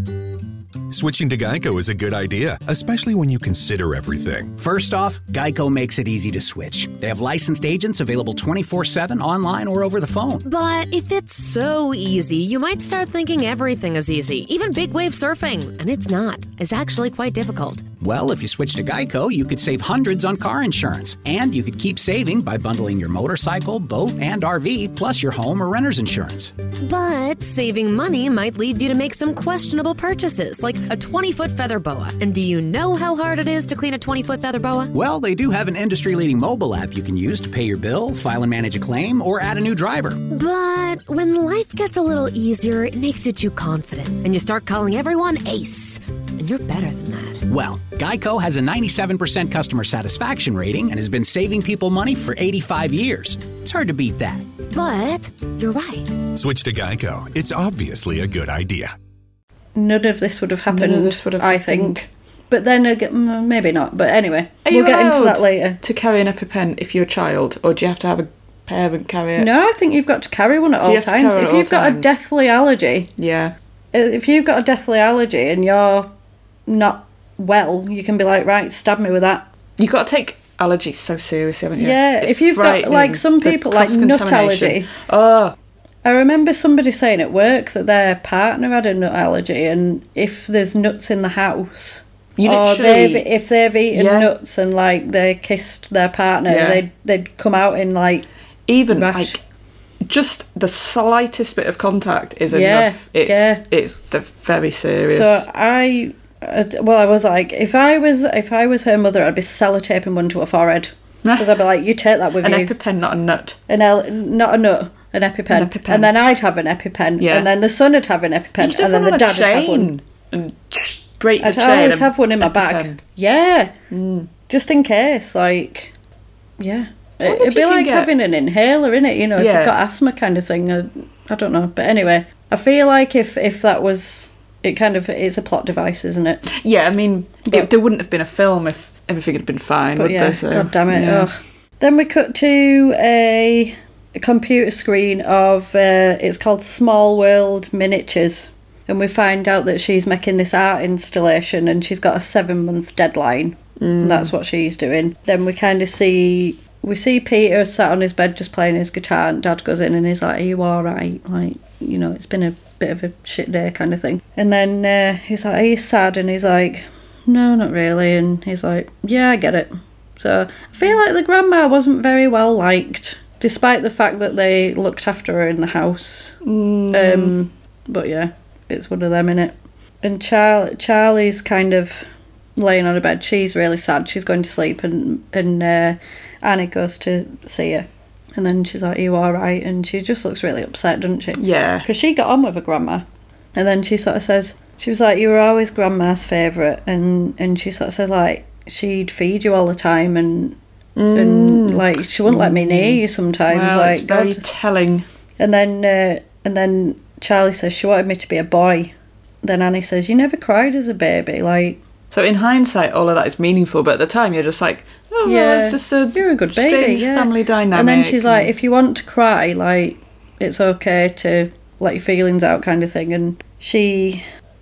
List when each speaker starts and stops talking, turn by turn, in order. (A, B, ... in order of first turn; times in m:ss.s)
0:00.9-0:04.6 A
0:04.6-0:10.4 B
0:10.4-0:17.8 C
0:18.0-0:26.5 B
0:26.8-0:34.9 C
0:34.9-0:40.2 B
0:40.3-0:47.4 C
0:47.5-0:54.4 B
0:54.7-0:56.1 C
0:56.3-0:58.9 A
0:59.8-1:05.8 D
1:00.7-1:02.0 E
1:04.6-1:09.5 E
1:09.4-1:13.1 D
1:10.8-1:12.1 E
1:13.2-1:13.5 E
1:13.9-1:16.1 D
1:16.7-1:19.4 D
1:19.8-1:25.5 E
1:21.8-1:24.9 D
1:26.0-1:38.3 D
1:32.4-1:33.3 E
1:33.9-1:34.3 E
1:36.5-1:36.8 E
1:38.7-1:39.4 E
1:38.9-1:39.4 D
1:40.0-1:45.4 E
1:42.5-1:43.6 D
1:45.1-1:52.7 D
1:51.2-1:51.6 E
1:52.4-1:53.6 E
1:53.7-1:59.9 D
1:55.5-1:56.1 E
1:57.2-1:57.5 E
1:58.6-2:03.0 E
2:01.4-2:03.7 D
2:03.9-2:04.3 E
2:04.5-2:05.9 D
2:06.6-2:16.5 D
2:07.2-2:08.1 E
2:09.4-2:09.8 E
2:16.5-2:21.3 E
2:20.0-2:56.3 D
2:33.8-2:34.3 E
2:56.4-2:57.3 E
2:56.9-3:20.6 D
3:11.4-3:11.9 E
3:21.0-3:25.0 E
3:21.1-3:24.4 D
3:25.4-3:31.8 D
3:32.1-3:38.5 E
3:35.2-3:44.2 D